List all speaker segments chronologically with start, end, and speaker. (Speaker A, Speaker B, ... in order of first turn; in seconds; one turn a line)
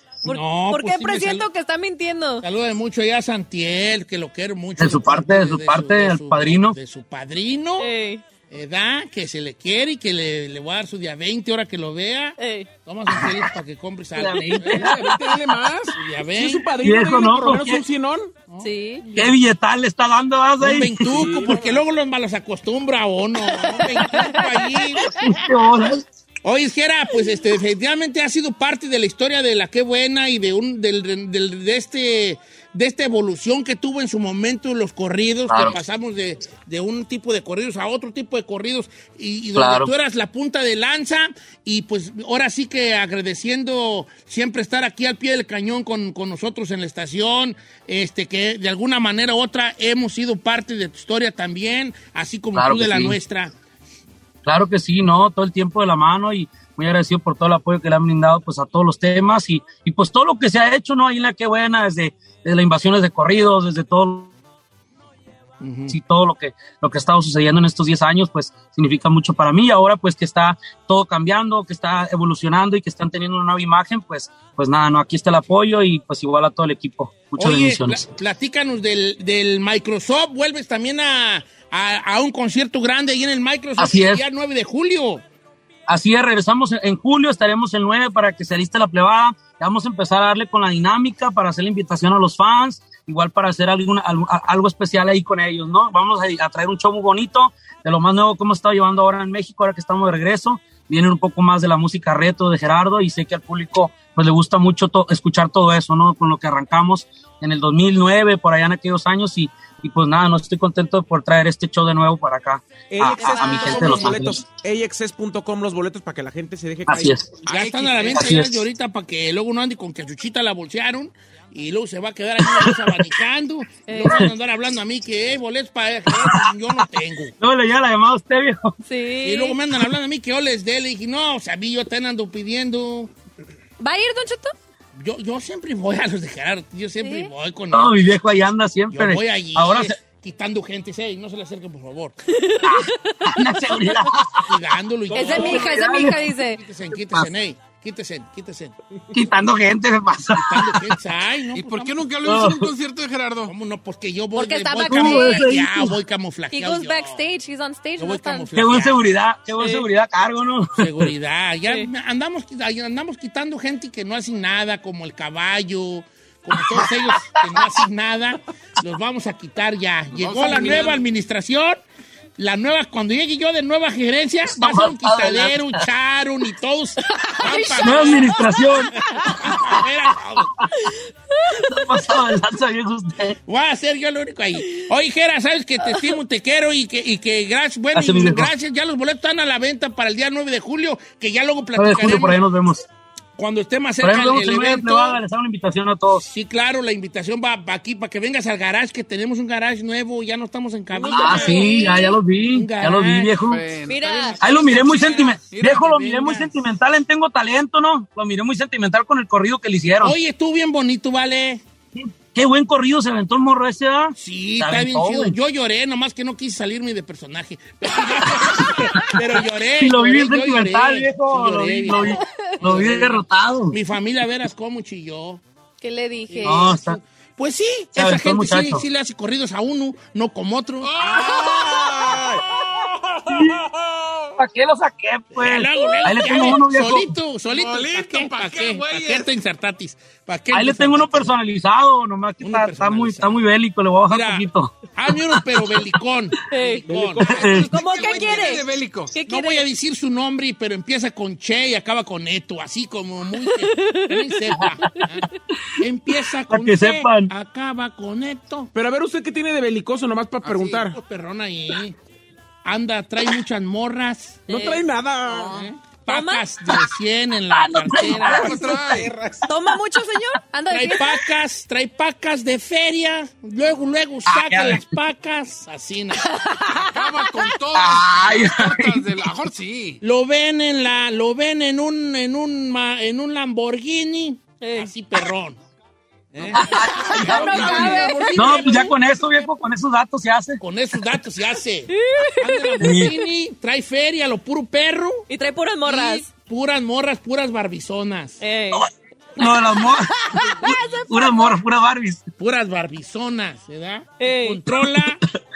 Speaker A: 0.2-2.4
Speaker B: 0.2-1.4
Speaker B: 2.4-7.9
Speaker C: 4.8-6.8
Speaker A: 7.8-8.2
Speaker B: 8.5-15.0
Speaker A: 12.4-12.7
Speaker C: 13.1-13.4
Speaker C: 14.2-15.2
Speaker D: 14.6-18.3
Speaker B: 15.9-16.7
Speaker C: 16.8-17.8
Speaker B: 18.5-19.3
Speaker A: 18.6-19.0
Speaker C: 19.1-21.5
Speaker B: 20.6-25.2
Speaker D: 21.2-21.5
Speaker A: 23.6-25.4
Speaker C: 25.2-26.0
Speaker B: 26.4-53.5
Speaker C: 35.5-35.8
Speaker C: 39.5-39.9
Speaker C: 52.5-53.2
Speaker C: 54.4-64.3
Speaker B: 65.6-66.0
Speaker C: 65.9-78.0
Speaker B: 77.4-85.2
Speaker C: 83.8-84.2
Speaker C: 85.9-114.4
Speaker D: 112.9-117.1
Speaker A: 113.0-114.1
Speaker C: 116.9-117.4
Speaker E: 117.5-118.3
Speaker B: 117.5-127.3
Speaker C: 118.1-118.7
Speaker C: 122.4-123.0
Speaker A: 123.9-124.3
Speaker C: 124.0-124.3
Speaker C: 126.1-126.5
Speaker C: 127.4-128.8
Speaker A: 128.8-129.6
Speaker B: 129.2-133.1
Speaker A: 133.8-134.5
Speaker B: 134.9-138.0
Speaker A: 137.0-137.3
Speaker C: 137.7-140.0
Speaker B: 138.9-142.3
Speaker A: 142.4-143.3
Speaker C: 142.6-144.4
Speaker B: 144.4-148.7
Speaker A: 145.1-146.6
Speaker C: 145.1-146.2
Speaker C: 149.1-150.9
Speaker B: 150.3-152.1
Speaker E: 151.5-153.5
Speaker C: 152.2-152.7
Speaker B: 153.4-157.2
Speaker A: 154.3-155.5
Speaker C: 154.9-156.0
Speaker A: 156.5-158.5
Speaker B: 158.0-159.1
Speaker C: 158.5-161.1
Speaker A: 159.6-159.9
Speaker B: 160.8-171.8
Speaker C: 166.6-167.7
Speaker E: 170.2-171.0
Speaker B: 172.4-178.4
Speaker C: 174.5-175.8
Speaker A: 177.2-179.2
Speaker C: 177.8-180.9
Speaker B: 179.0-180.6
Speaker C: 181.5-183.3
Speaker B: 183.4-192.4
Speaker C: 187.9-188.5
Speaker C: 191.8-192.8
Speaker B: 193.4-195.2
Speaker C: 194.0-196.2
Speaker B: 196.2-203.3
Speaker A: 201.0-201.8
Speaker C: 201.1-203.6
Speaker E: 203.4-205.9
Speaker A: 203.8-204.4
Speaker C: 204.4-210.2
Speaker B: 204.5-206.6
Speaker B: 210.0-211.6
Speaker C: 211.9-215.4
Speaker B: 214.2-225.4
Speaker C: 218.9-223.8
Speaker A: 221.9-222.4
Speaker A: 225.8-226.8
Speaker B: 226.3-230.9
Speaker C: 226.4-227.0
Speaker C: 227.9-228.8
Speaker E: 230.8-232.4
Speaker D: 231.0-232.9
Speaker C: 233.3-233.6
Speaker C: 234.4-237.1
Speaker B: 235.3-241.4
Speaker A: 235.8-236.5
Speaker E: 237.5-239.3
Speaker C: 240.5-245.9
Speaker B: 242.4-243.4
Speaker B: 244.1-247.2
Speaker A: 246.5-246.8
Speaker D: 246.8-247.4
Speaker E: 247.2-249.1
Speaker C: 247.2-247.8
Speaker A: 247.4-249.6
Speaker B: 249.2-258.7
Speaker A: 253.6-254.3
Speaker C: 254.6-254.9
Speaker C: 256.5-257.3
Speaker D: 258.7-260.9
Speaker E: 260.4-260.9
Speaker B: 260.9-262.0
Speaker B: 262.6-264.4
Speaker D: 264.5-265.7
Speaker A: 264.5-266.7
Speaker B: 265.5-268.9
Speaker C: 267.5-268.6
Speaker E: 268.4-269.1
Speaker D: 268.8-269.4
Speaker A: 269.4-271.2
Speaker B: 270.7-276.2
Speaker C: 274.2-275.0
Speaker A: 276.2-277.5
Speaker E: 276.8-280.0
Speaker C: 277.7-279.3
Speaker B: 280.0-285.6
Speaker A: 284.6-284.9
Speaker B: 286.3-288.9
Speaker A: 286.5-288.8
Speaker C: 286.6-290.6
Speaker E: 287.1-288.1
Speaker D: 287.4-288.9
Speaker B: 290.6-295.2
Speaker A: 291.9-293.0
Speaker C: 292.8-293.2
Speaker A: 295.3-296.3
Speaker B: 295.8-298.4
Speaker A: 298.4-298.9
Speaker C: 299.4-302.2
Speaker A: 299.4-301.6
Speaker B: 302.4-305.2
Speaker A: 304.2-304.6
Speaker C: 304.8-305.1